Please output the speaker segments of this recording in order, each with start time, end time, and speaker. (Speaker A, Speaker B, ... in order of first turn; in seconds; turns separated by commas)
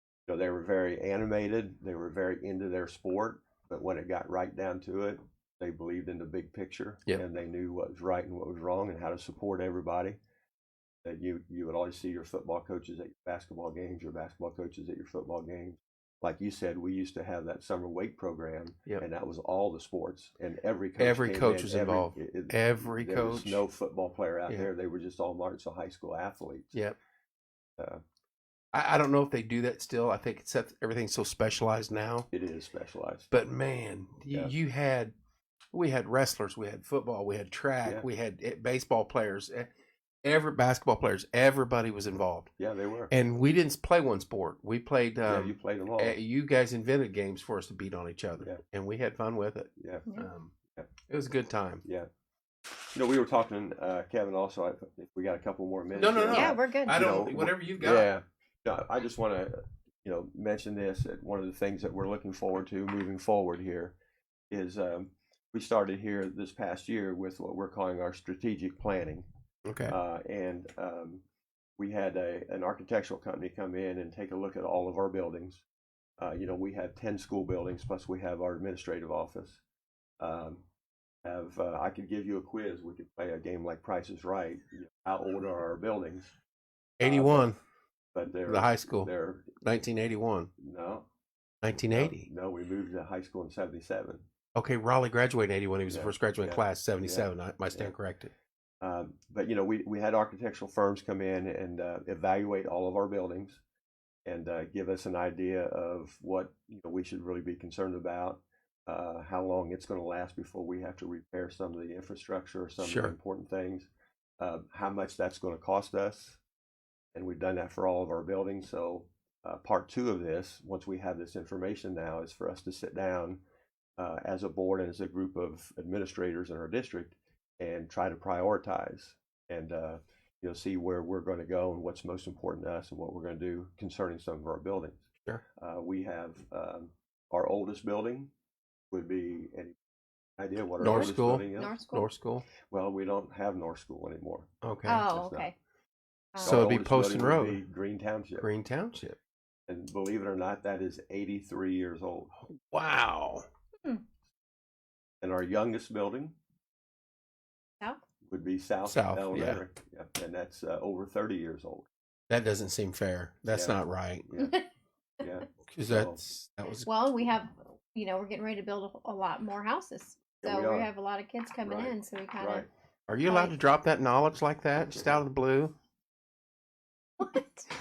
Speaker A: 0.3-10.2, Speaker A: 11.0-26.8, Speaker B: 21.0-23.6, Speaker B: 28.7-32.3, Speaker A: 32.3-33.3, Speaker B: 33.3-35.1, Speaker B: 35.7-39.7, Speaker B: 40.2-42.5, Speaker A: 42.6-43.1, Speaker B: 43.1-50.5, Speaker A: 45.2-46.2, Speaker A: 49.8-50.1, Speaker B: 51.1-51.8, Speaker A: 51.8-52.1, Speaker A: 52.9-63.9, Speaker B: 55.9-58.1, Speaker C: 56.3-57.1, Speaker A: 64.5-69.2, Speaker B: 69.7-69.9, Speaker A: 69.9-71.2, Speaker A: 71.8-75.6, Speaker A: 76.2-79.6, Speaker A: 80.2-80.6, Speaker A: 81.2-86.3, Speaker B: 87.0-87.6, Speaker A: 87.0-87.5, Speaker A: 88.1-89.5, Speaker B: 88.5-89.1, Speaker B: 89.6-90.5, Speaker A: 90.6-91.0, Speaker B: 91.6-92.3, Speaker A: 91.9-94.2, Speaker B: 94.5-98.3, Speaker A: 95.9-97.9, Speaker A: 98.8-103.6, Speaker A: 104.2-113.9, Speaker B: 112.8-113.1, Speaker A: 114.4-116.4, Speaker A: 117.1-123.4, Speaker A: 124.0-135.0, Speaker A: 135.6-138.3, Speaker A: 138.9-139.8, Speaker A: 140.4-141.7, Speaker B: 140.8-142.4, Speaker C: 140.8-142.1, Speaker A: 142.7-144.5, Speaker B: 144.6-145.1, Speaker C: 144.8-145.6, Speaker A: 145.1-145.5, Speaker C: 146.3-146.7, Speaker A: 146.4-148.5, Speaker B: 146.4-147.6, Speaker B: 148.4-149.2, Speaker A: 149.7-152.3, Speaker B: 152.4-153.4, Speaker A: 155.2-156.3, Speaker A: 158.2-161.9, Speaker B: 158.8-159.6, Speaker B: 162.3-164.3, Speaker A: 163.5-164.6, Speaker C: 164.4-164.6, Speaker A: 165.2-166.2, Speaker B: 165.7-166.9, Speaker C: 166.8-172.7, Speaker A: 170.4-170.9, Speaker A: 171.6-172.7, Speaker B: 173.1-175.7, Speaker C: 173.2-173.6, Speaker A: 174.7-175.2, Speaker C: 177.2-177.7